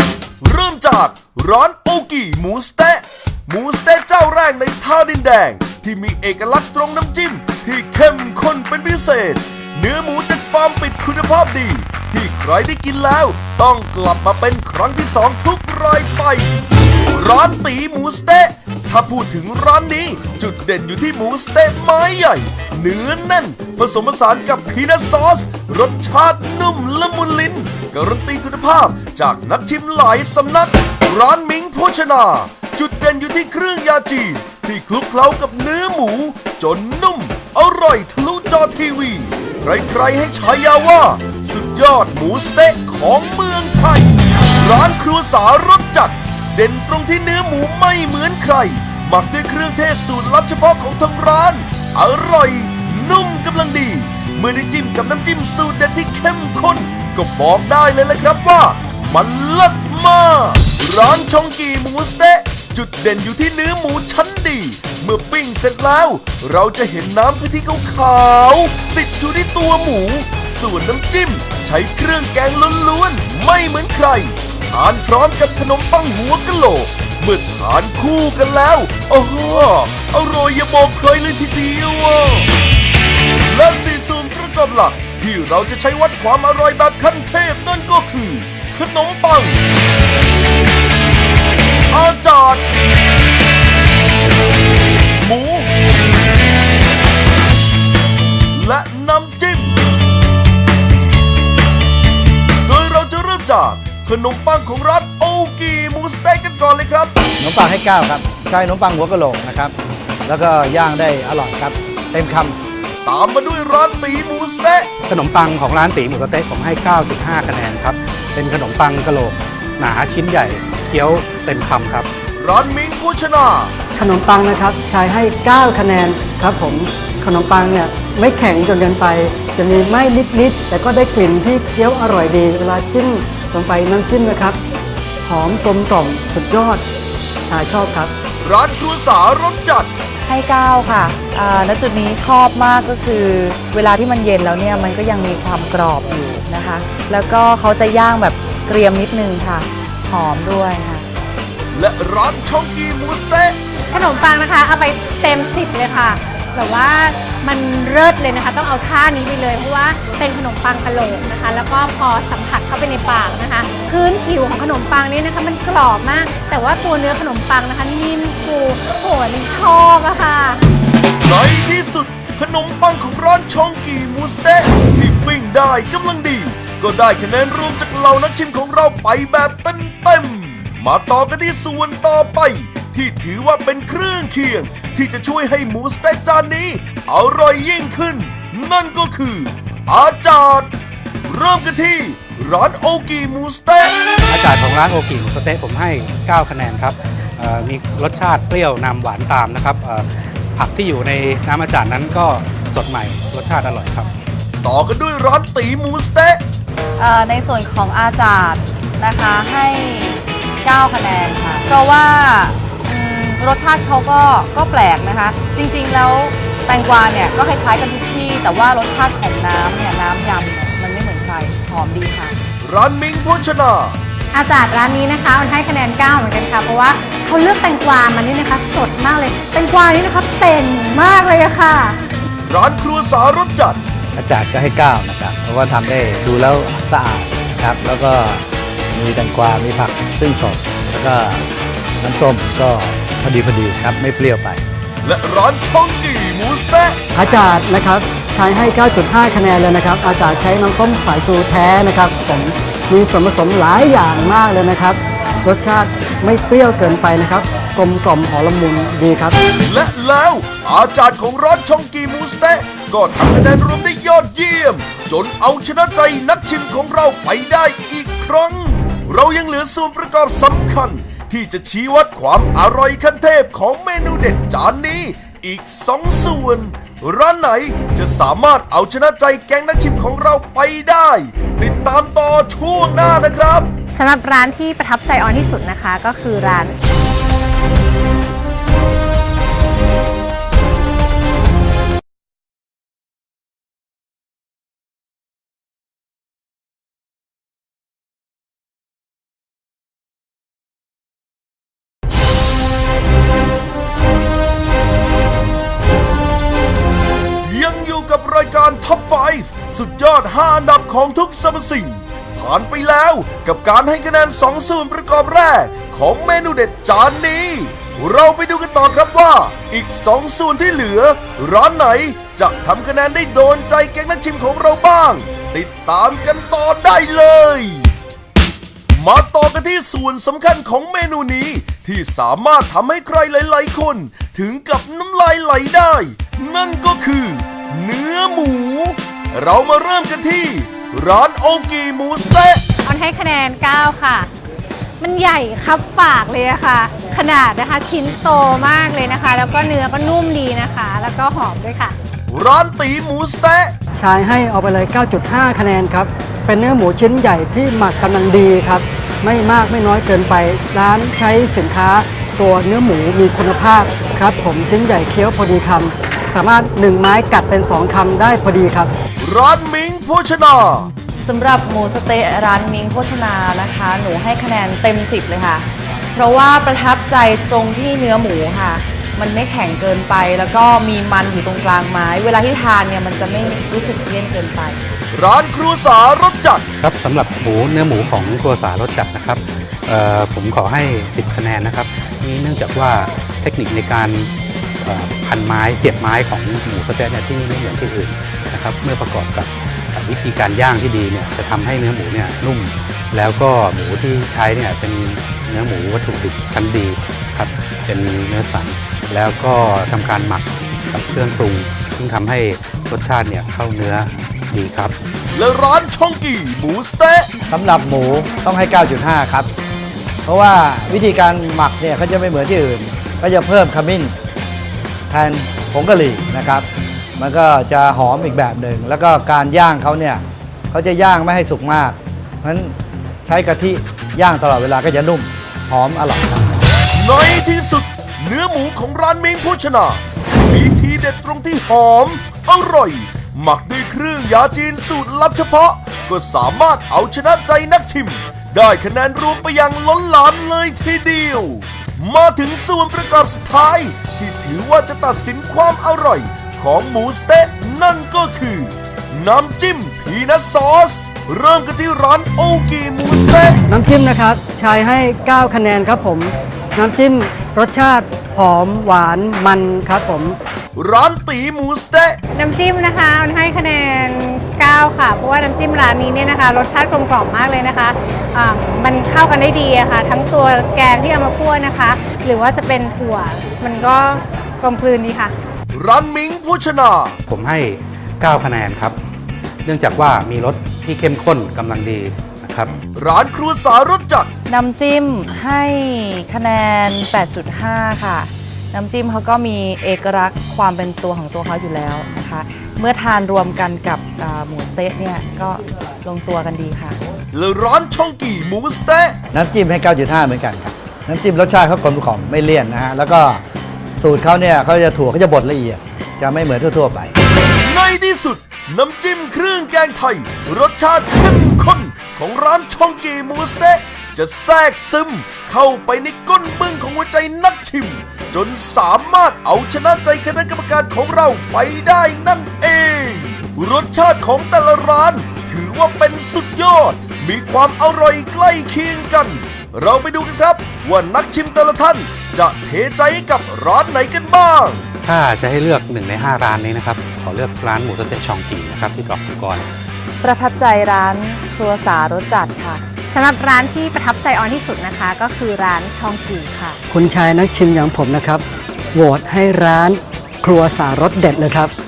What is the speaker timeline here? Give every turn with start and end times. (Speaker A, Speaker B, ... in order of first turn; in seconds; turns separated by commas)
Speaker A: 0.4-82.5, Speaker A: 83.5-89.6, Speaker A: 91.9-92.7, Speaker A: 95.2-95.7, Speaker A: 98.5-99.8, Speaker A: 102.7-107.1, Speaker B: 107.4-109.7, Speaker B: 110.3-112.6, Speaker A: 113.0-114.9, Speaker C: 115.1-122.1, Speaker A: 122.4-123.7, Speaker D: 124.0-134.6, Speaker D: 135.3-136.8, Speaker D: 137.5-138.1, Speaker A: 138.4-139.9, Speaker E: 140.3-151.1, Speaker A: 151.7-153.6, Speaker F: 153.9-170.6, Speaker A: 171.2-190.7, Speaker A: 191.3-194.0, Speaker C: 194.3-204.1, Speaker A: 204.6-206.4, Speaker E: 207.0-222.4, Speaker A: 222.6-224.0, Speaker F: 224.3-232.0, Speaker A: 232.5-233.8, Speaker B: 234.2-238.4, Speaker B: 238.9-241.4, Speaker B: 242.0-244.6, Speaker A: 245.0-247.0, Speaker D: 247.2-259.4, Speaker A: 259.6-283.7, Speaker F: 283.9-286.8, Speaker A: 307.4-327.9, Speaker A: 328.9-342.6, Speaker F: 342.9-344.3, Speaker F: 345.0-351.9, Speaker A: 352.3-353.7, Speaker D: 354.0-368.9, Speaker A: 369.2-370.9, Speaker E: 371.2-384.8, Speaker A: 385.1-386.7, Speaker C: 386.8-414.9, Speaker A: 415.3-417.3, Speaker B: 417.5-419.5, Speaker B: 420.3-424.1, Speaker B: 425.1-426.7, Speaker B: 427.2-432.8, Speaker B: 433.3-436.6, Speaker A: 436.9-463.6, Speaker D: 463.7-470.4, Speaker A: 470.8-472.2, Speaker F: 472.3-485.3, Speaker A: 485.7-487.2, Speaker C: 487.3-488.9, Speaker C: 489.6-492.7, Speaker A: 492.9-494.3, Speaker E: 494.5-507.0, Speaker A: 507.3-509.2, Speaker B: 509.3-513.4, Speaker B: 514.0-517.1, Speaker A: 517.6-544.9, Speaker C: 545.1-549.7, Speaker E: 550.2-552.8, Speaker F: 553.1-556.8, Speaker D: 556.9-558.4, Speaker D: 559.0-561.7